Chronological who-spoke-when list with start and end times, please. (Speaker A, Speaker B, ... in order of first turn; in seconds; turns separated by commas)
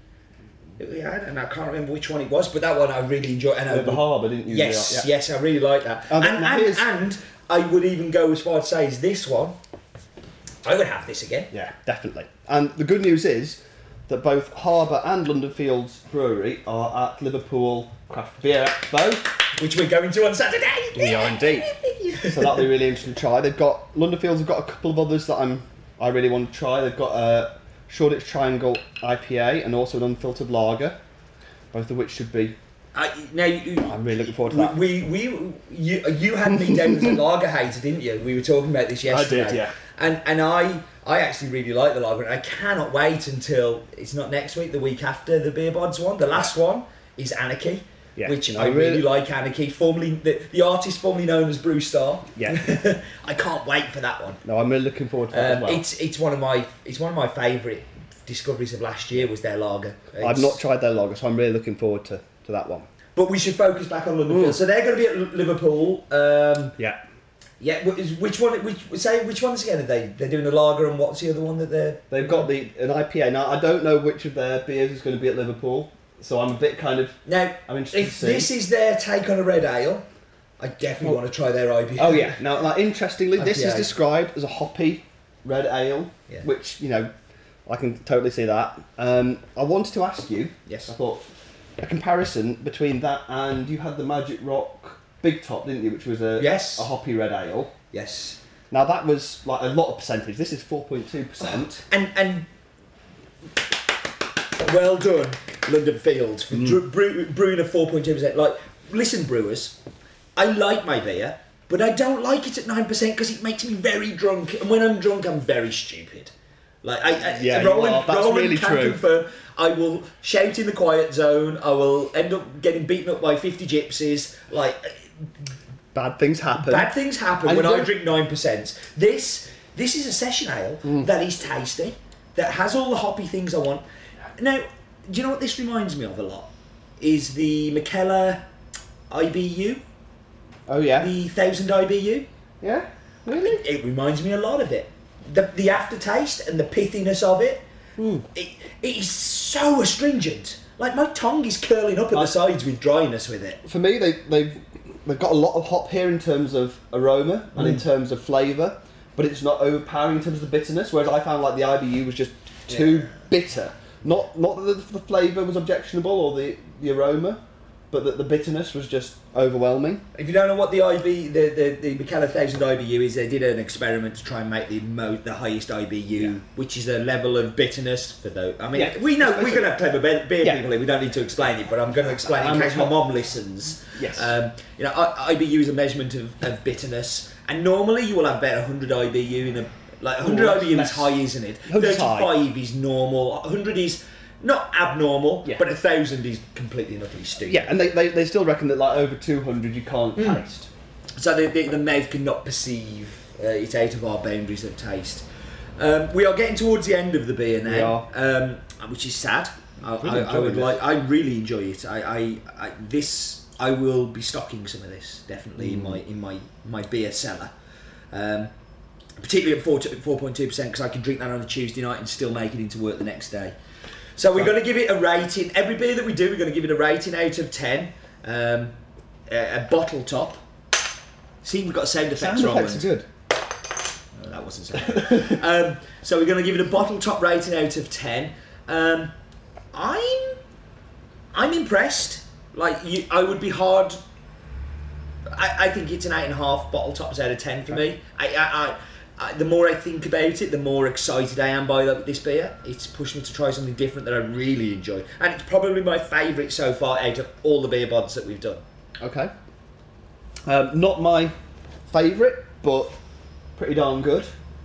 Speaker A: 0.8-9.6, Speaker B: 3.7-5.1, Speaker B: 6.1-6.9, Speaker A: 10.6-11.5, Speaker B: 11.5-19.3, Speaker A: 19.5-22.7, Speaker B: 21.0-21.7, Speaker B: 22.2-31.0, Speaker B: 31.7-32.6, Speaker A: 33.0-54.4, Speaker B: 33.8-34.8, Speaker B: 39.1-39.7, Speaker B: 48.2-49.1, Speaker B: 52.4-52.7, Speaker B: 54.5-55.9, Speaker A: 55.3-60.6, Speaker B: 60.2-62.9, Speaker A: 63.1-66.8, Speaker B: 64.3-64.6, Speaker A: 67.6-72.5, Speaker B: 72.1-78.5, Speaker A: 77.2-80.1, Speaker A: 80.6-82.4, Speaker B: 82.0-87.1, Speaker A: 83.3-83.9, Speaker B: 87.7-97.7, Speaker A: 90.7-90.9, Speaker A: 96.4-96.9, Speaker A: 97.9-98.4, Speaker B: 98.7-101.8, Speaker A: 101.9-102.5, Speaker A: 104.6-109.8, Speaker A: 110.4-116.3, Speaker A: 116.8-125.1, Speaker B: 117.2-119.0, Speaker B: 125.9-126.9, Speaker A: 126.6-133.8, Speaker B: 127.4-128.0, Speaker A: 134.4-138.4, Speaker A: 139.1-139.8, Speaker B: 140.7-141.1, Speaker A: 140.9-142.3, Speaker B: 142.6-143.6, Speaker A: 143.3-147.6, Speaker B: 148.0-148.3, Speaker A: 148.3-153.6, Speaker B: 153.6-167.4, Speaker A: 157.5-157.8, Speaker A: 162.7-163.1, Speaker B: 167.9-170.0, Speaker A: 170.1-197.7, Speaker B: 178.7-179.8, Speaker B: 182.4-183.0, Speaker B: 184.0-184.3, Speaker B: 190.2-191.2, Speaker B: 191.7-192.3, Speaker B: 197.4-200.7, Speaker A: 201.2-205.2, Speaker A: 205.8-217.5, Speaker B: 207.6-208.1, Speaker B: 210.0-210.8, Speaker B: 215.6-216.0, Speaker A: 218.1-218.5, Speaker A: 219.2-223.6, Speaker A: 224.2-228.8, Speaker A: 229.3-230.4, Speaker A: 231.4-232.9, Speaker B: 232.2-233.1, Speaker A: 234.2-239.1, Speaker B: 234.9-235.3, Speaker A: 239.7-240.4, Speaker A: 241.3-244.0, Speaker A: 245.3-258.6, Speaker B: 259.0-259.3, Speaker B: 260.5-261.3, Speaker B: 261.9-262.9, Speaker B: 263.6-264.3